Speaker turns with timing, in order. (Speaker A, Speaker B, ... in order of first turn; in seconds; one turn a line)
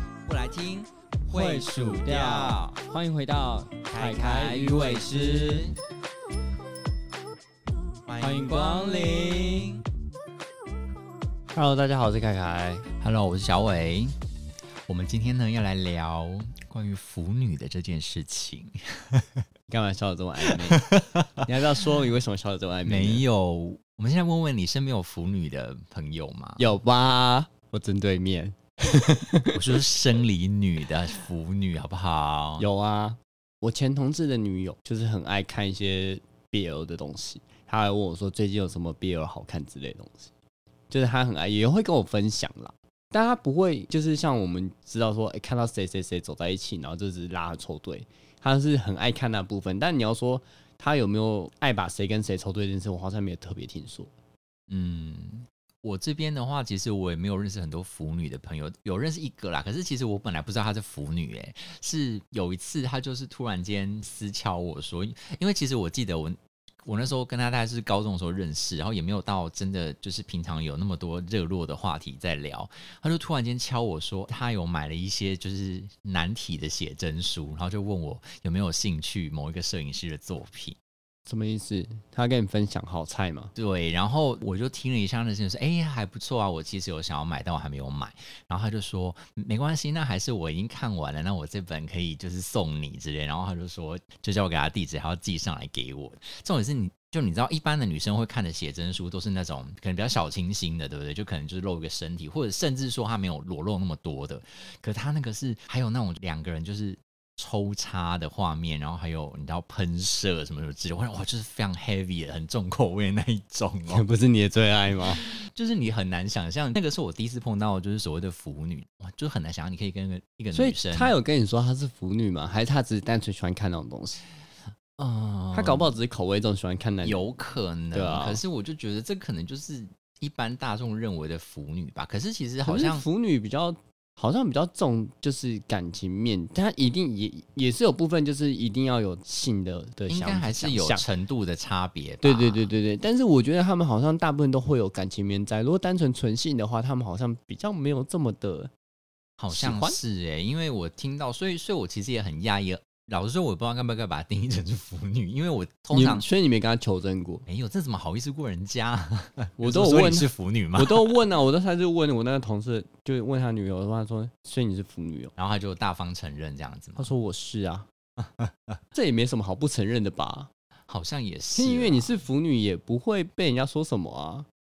Speaker A: 0.2-2.8
Speaker B: 1.3-5.7
Speaker A: 3.9-5.7
Speaker A: 8.1-9.8
Speaker B: 8.2-9.7
Speaker B: 11.5-12.9
Speaker A: 13.0-14.1
Speaker A: 14.9-19.4
Speaker B: 19.7-20.8
Speaker A: 20.4-21.5
Speaker B: 21.4-23.2
Speaker A: 22.9-26.6
Speaker B: 26.6-29.6
Speaker A: 29.5-32.6
Speaker B: 32.6-40.3
Speaker B: 40.9-54.1
Speaker A: 54.7-80.8
Speaker B: 81.3-83.5
Speaker A: 83.5-114.0
Speaker B: 113.9-115.2
Speaker A: 115.1-121.1
Speaker B: 120.5-124.2
Speaker A: 125.0-125.9
Speaker B: 125.5-127.2
Speaker A: 127.0-133.0
Speaker B: 127.9-128.4
Speaker B: 132.6-141.0
Speaker A: 140.1-142.7
Speaker B: 142.2-148.7
Speaker A: 149.4-156.2
Speaker B: 149.5-150.0
Speaker B: 155.9-157.4
Speaker A: 157.4-161.2
Speaker B: 159.6-165.3
Speaker A: 165.4-167.1
Speaker B: 167.0-167.9
Speaker A: 168.2-168.8
Speaker B: 168.9-170.5
Speaker A: 170.9-172.1
Speaker B: 171.6-174.5